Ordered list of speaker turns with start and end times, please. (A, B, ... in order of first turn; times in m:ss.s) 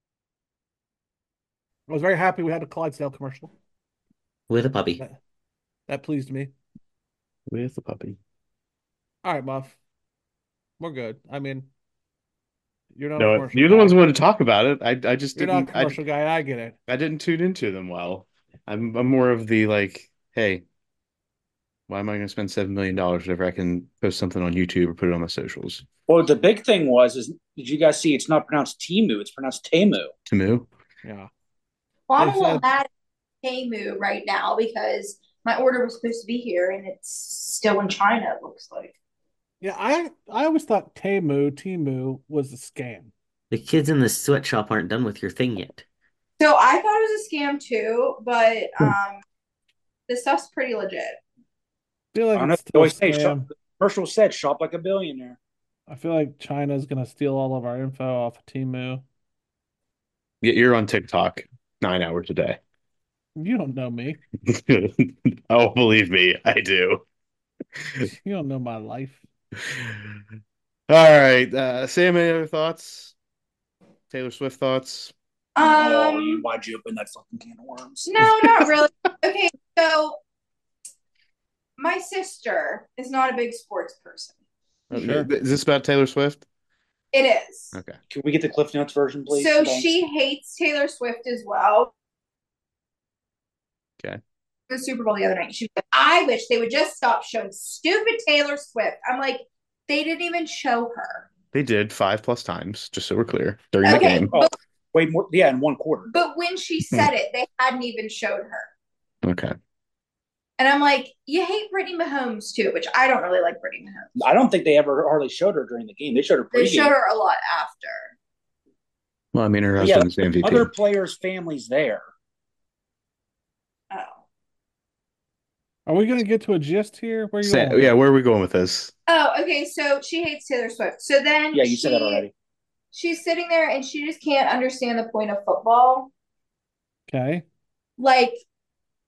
0:01.9-0:03.5 A
0:04.5-0:05.0 B
0:05.9-0:06.5 A
0:07.5-0:08.2 C
0:09.2-0:09.8 A
0:10.8-0:11.7 A
0:12.9-0:14.0 A
0:13.2-0:16.0 C
0:15.4-0:16.8 A
0:16.9-0:20.6 C
0:21.9-0:25.8 C
0:26.1-0:30.1 D
0:30.3-0:30.7 C
0:31.0-0:31.3 A
0:32.1-0:32.9 E
0:32.2-0:32.6 A
0:33.4-0:38.9 E
0:39.6-0:43.1 A
0:43.5-0:45.8 B
0:46.4-0:49.2 E
0:50.1-0:51.2 E
0:52.1-0:53.5 A
0:52.3-0:55.4 D
0:55.9-0:59.0 A
1:00.4-1:02.6 C
1:03.4-1:04.2 A
1:04.4-1:07.0 C
1:08.0-1:09.2 A
1:09.7-1:10.2 C
1:10.9-1:13.1 C
1:14.1-1:15.1 C
1:15.6-1:16.4 E
1:15.6-1:18.1 D
1:18.0-1:20.2 E
1:21.8-1:24.3 E
1:24.9-1:26.4 C
1:24.9-1:25.3 A
1:27.1-1:27.8 E
1:27.7-1:28.0 C
1:28.1-1:29.9 D
1:29.3-1:31.9 E
1:34.7-1:41.3 E
1:41.5-1:44.3 C
1:43.8-1:44.5 E
1:44.3-1:46.1 D
1:46.1-1:48.7 E
1:49.2-1:49.5 C
1:50.6-1:54.2 E
1:54.2-1:56.9 D
1:56.5-1:58.1 E
1:59.3-2:00.7 C
1:59.8-2:02.0 D
2:03.9-2:04.2 E
2:05.8-2:07.9 A
2:07.4-2:08.9 C
2:09.1-2:12.2 E
2:11.5-2:12.3 D
2:12.9-2:16.1 E
2:17.1-2:17.4 A
2:18.0-2:18.4 E